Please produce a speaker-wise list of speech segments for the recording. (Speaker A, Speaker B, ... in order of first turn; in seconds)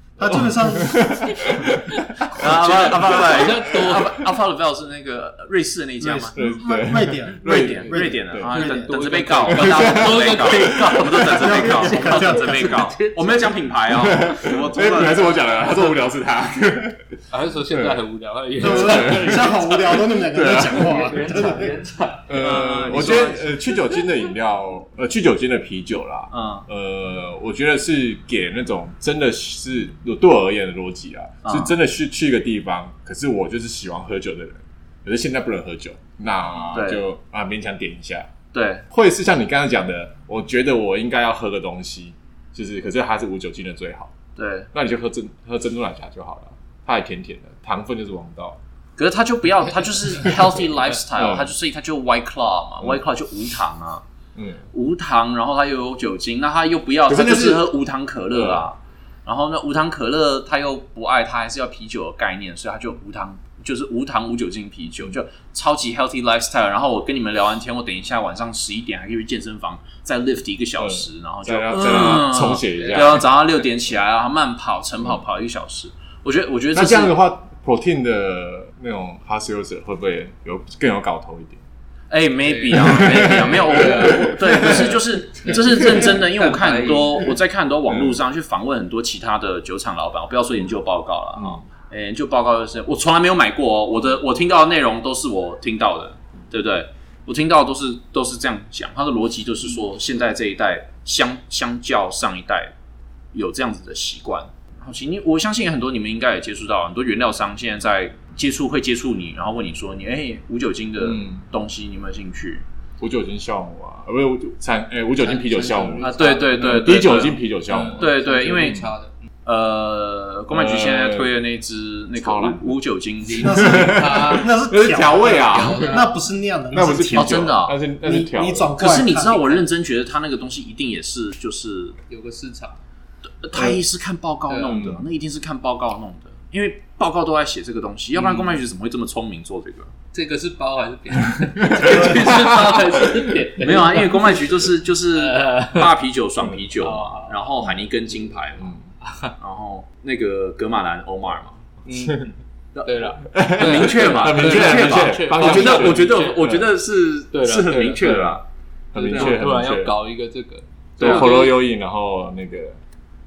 Speaker A: 0.2-1.7, 6.0-8.2, 11.2-12.9, 18.6-21.7, 123.4-127.5, 128.0-129.6
Speaker B: 0.2-3.4, 6.3-8.6, 9.4-11.1, 13.9-17.1, 17.7-18.0, 18.5-19.6, 20.3-21.1, 22.3-38.3, 38.9-44.1, 44.7-48.6, 51.1-51.5, 54.4-54.7, 57.1-57.8, 58.3-58.6, 70.8-73.3, 76.7-81.6, 82.7-86.2, 87.9-88.2, 91.3-91.6, 111.0-111.4, 113.0-118.1, 120.5-121.4, 122.2-122.8, 123.5-126.0, 126.7-128.8, 134.7-135.1, 141.6-143.4, 151.9-152.2, 153.3-156.7, 157.7-158.4, 158.9-159.9, 161.0-162.8
Speaker C: 2.3-6.4, 7.4-15.7, 22.4-23.5, 26.3-26.6, 31.4-31.7, 36.6-37.0, 38.5-38.9, 44.4-44.7, 49.0-54.0, 54.7-77.1, 82.1-102.7, 103.3-112.6, 116.0-117.4, 117.9-118.9, 119.4-123.6, 127.1-127.8, 128.8-132.0, 133.3-139.9, 143.6-148.8, 149.4-151.6, 152.7-158.4, 159.1-159.4, 161.0-161.6
Speaker D: 2.6-4.2, 8.5-13.5, 17.3-22.6, 72.7-73.2, 82.4-87.2, 115.2-117.1, 117.7-119.1, 123.2-124.5, 125.3-126.1, 132.1-132.8, 134.5-134.8, 138.1-138.6, 140.1-144.4, 145.1-146.0, 146.8-147.4, 149.1-149.3, 151.8-152.3, 152.8-156.5, 157.3-158.1, 158.9-161.5